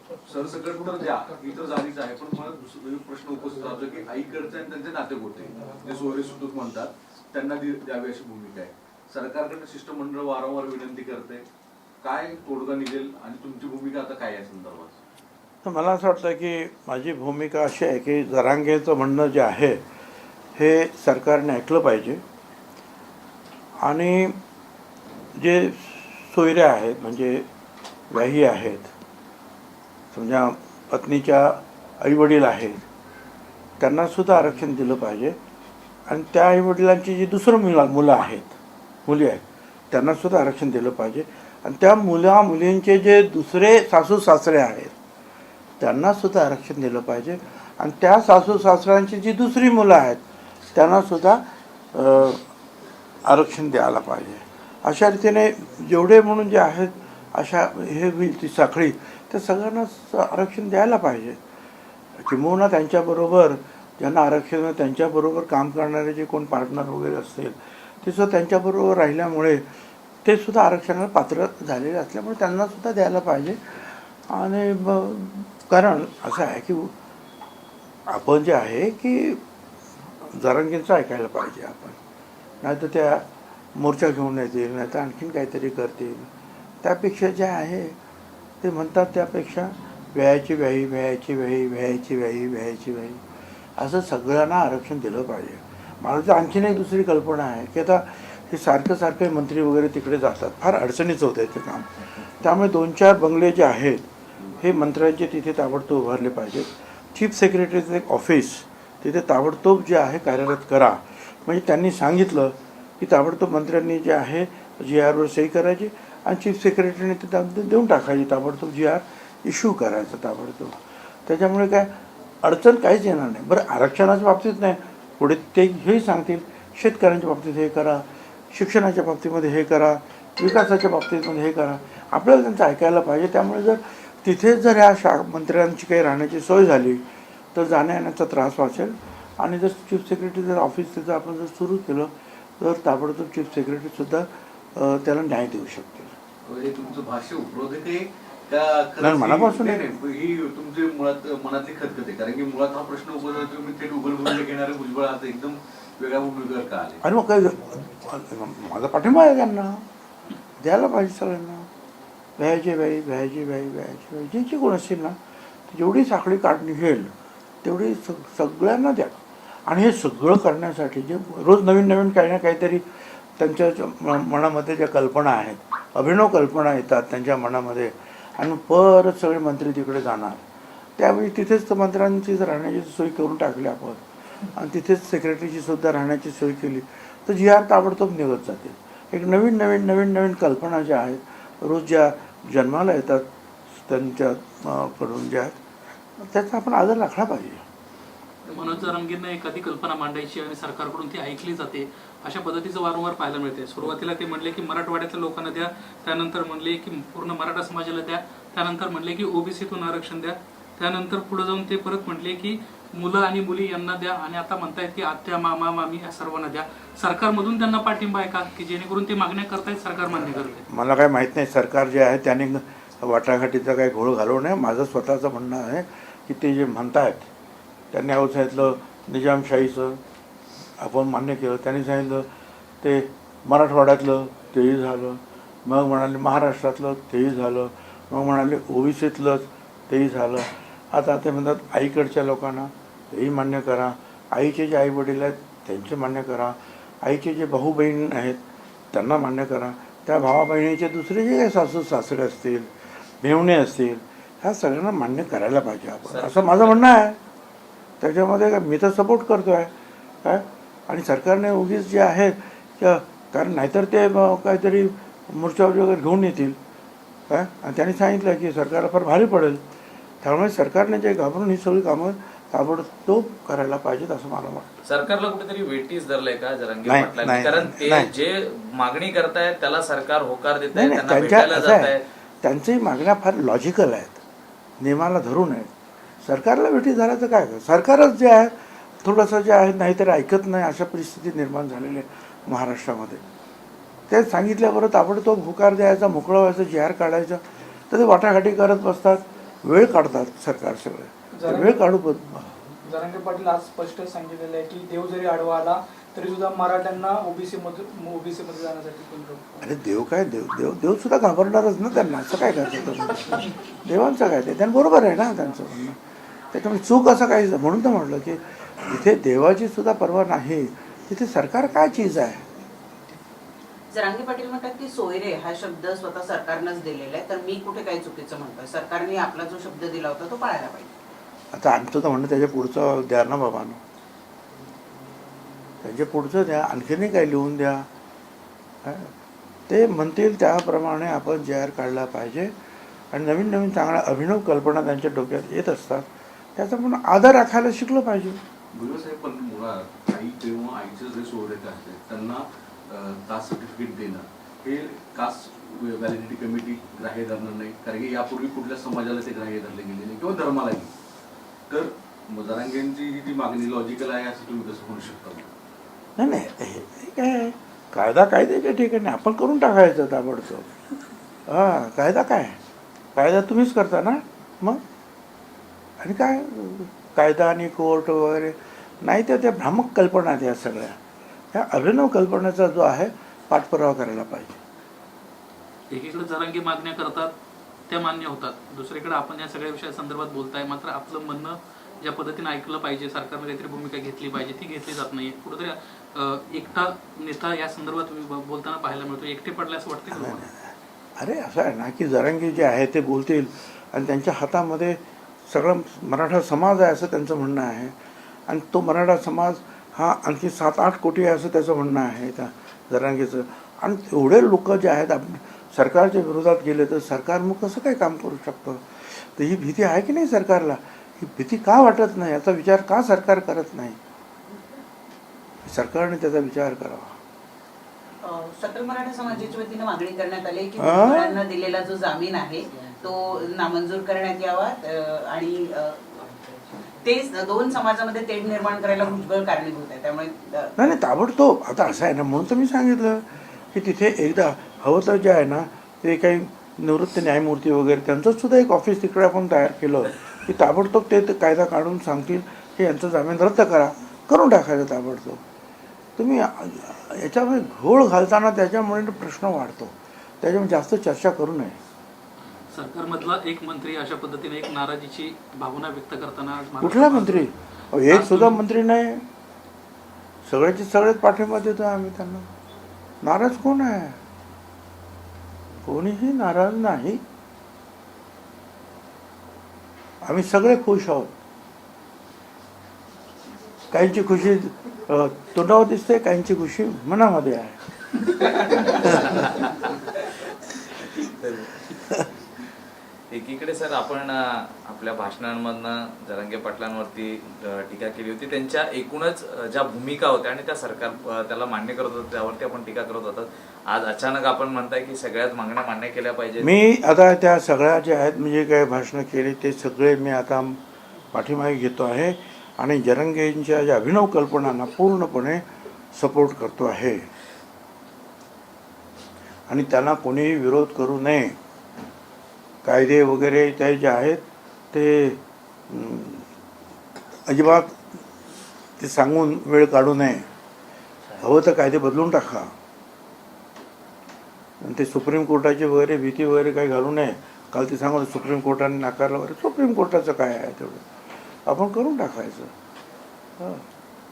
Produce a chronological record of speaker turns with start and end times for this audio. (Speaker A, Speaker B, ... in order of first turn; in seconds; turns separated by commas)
Speaker A: 0.2-11.4, Speaker A: 12.0-15.0, Speaker B: 15.6-19.8, Speaker B: 20.6-22.2, Speaker B: 23.8-24.4, Speaker B: 25.4-27.4, Speaker B: 28.1-28.9, Speaker B: 30.1-32.8, Speaker B: 33.8-35.4, Speaker B: 36.1-38.5, Speaker B: 39.0-44.9, Speaker B: 45.8-50.2, Speaker B: 50.7-52.4, Speaker B: 53.2-61.4, Speaker B: 62.2-69.7, Speaker B: 70.2-76.9, Speaker B: 78.1-79.4, Speaker B: 80.2-82.0, Speaker B: 82.6-86.3, Speaker B: 86.8-88.0, Speaker B: 88.6-93.2, Speaker B: 93.8-104.0, Speaker B: 104.6-146.1, Speaker A: 146.4-157.0, Speaker B: 149.0-149.8, Speaker B: 157.0-159.8, Speaker B: 160.6-161.7, Speaker B: 162.4-165.2, Speaker B: 165.7-167.1, Speaker B: 167.6-180.4, Speaker B: 181.0-184.0, Speaker B: 184.5-193.2, Speaker B: 193.8-195.6, Speaker B: 196.2-197.6, Speaker C: 198.4-220.6, Speaker B: 220.7-227.2, Speaker B: 227.9-230.0, Speaker B: 230.8-232.3, Speaker B: 232.8-248.4, Speaker B: 248.9-257.2, Speaker D: 256.1-256.8, Speaker B: 258.0-259.7, Speaker B: 260.2-266.6, Speaker B: 267.3-269.6, Speaker B: 270.2-274.8, Speaker D: 274.9-282.0, Speaker B: 276.8-278.1, Speaker B: 280.7-284.2, Speaker B: 284.8-285.7, Speaker B: 286.2-293.2, Speaker B: 294.1-302.5, Speaker E: 302.9-303.2, Speaker E: 307.6-309.4, Speaker B: 309.6-316.0, Speaker B: 316.5-322.4, Speaker F: 323.9-330.9, Speaker B: 331.5-333.8, Speaker B: 335.8-337.9, Speaker B: 338.8-339.1, Speaker B: 339.7-342.5, Speaker B: 343.1-348.4, Speaker A: 348.7-360.9, Speaker A: 361.7-365.5, Speaker B: 366.2-370.8, Speaker B: 371.5-372.6, Speaker B: 373.1-374.8, Speaker B: 376.0-381.0, Speaker B: 381.5-384.6, Speaker C: 385.9-387.3, Speaker C: 387.9-400.5, Speaker B: 400.1-407.9, Speaker B: 408.5-424.0, Speaker B: 425.6-427.1, Speaker F: 428.2-440.8, Speaker B: 430.8-431.4, Speaker B: 440.8-455.4, Speaker B: 456.2-461.8, Speaker C: 462.7-468.6, Speaker B: 466.8-469.2, Speaker B: 470.4-472.5, Speaker B: 473.2-474.2, Speaker B: 475.8-477.2, Speaker B: 480.2-481.3, Speaker B: 483.9-487.8, Speaker D: 488.7-489.7, Speaker B: 488.7-489.5, Speaker D: 491.2-492.0, Speaker D: 493.3-506.7, Speaker B: 506.6-510.8, Speaker B: 511.3-515.6, Speaker B: 516.1-517.3, Speaker B: 519.7-521.6, Speaker B: 522.8-526.5, Speaker B: 527.5-528.2, Speaker B: 529.0-530.5, Speaker B: 531.4-532.7, Speaker B: 534.8-541.0, Speaker B: 541.6-542.7, Speaker B: 543.6-543.8